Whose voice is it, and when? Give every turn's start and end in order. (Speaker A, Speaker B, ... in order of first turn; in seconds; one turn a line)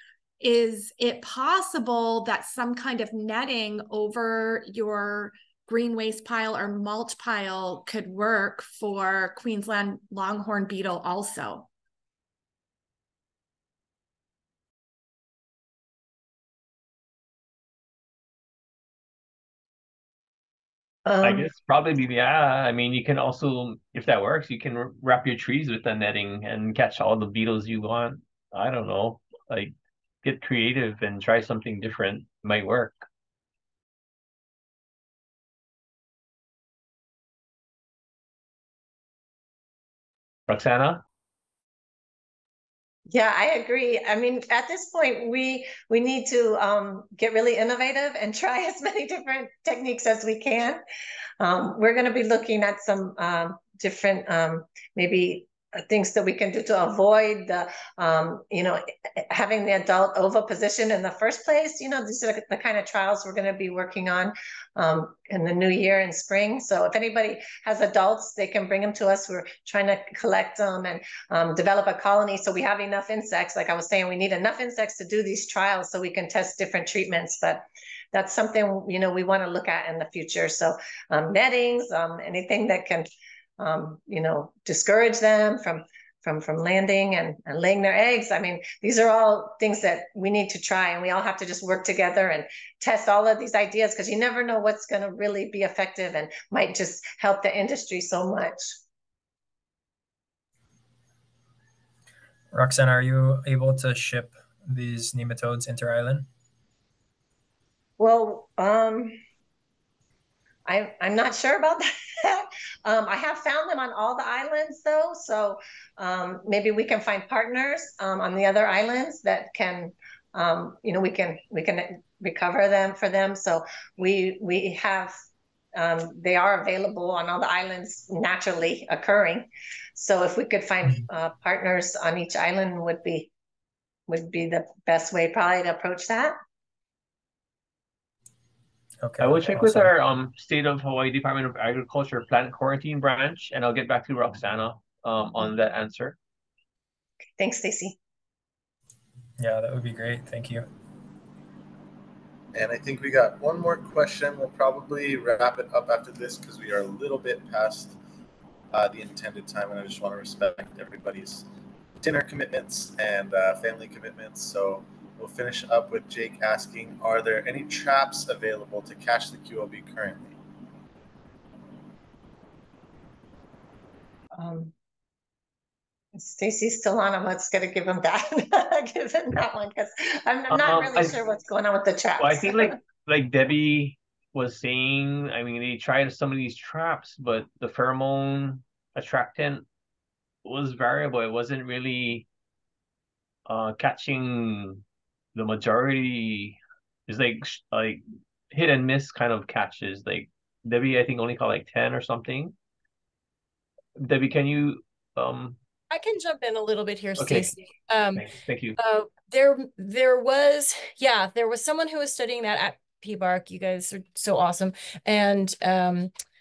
Speaker A: 0.4-11.7
Speaker B: 21.1-21.5
Speaker C: 21.2-33.0
Speaker C: 40.5-41.0
Speaker B: 43.1-50.8
Speaker B: 51.4-98.8
Speaker D: 102.5-106.3
Speaker B: 108.0-109.2
Speaker B: 110.7-125.2
Speaker B: 125.8-133.3
Speaker B: 134.1-136.4
Speaker D: 139.0-139.9
Speaker C: 139.2-146.2
Speaker B: 147.4-148.0
Speaker D: 149.4-150.7
Speaker E: 152.5-158.0
Speaker E: 158.7-161.5
Speaker E: 162.0-170.4
Speaker B: 174.4-174.7
Speaker B: 176.2-182.8
Speaker C: 180.5-181.1
Speaker C: 182.2-189.7
Speaker C: 190.4-192.3
Speaker C: 193.5-194.8
Speaker C: 195.3-202.6
Speaker C: 204.0-205.6
Speaker F: 205.9-208.3
Speaker C: 207.2-207.6
Speaker C: 208.1-208.8
Speaker F: 208.8-216.1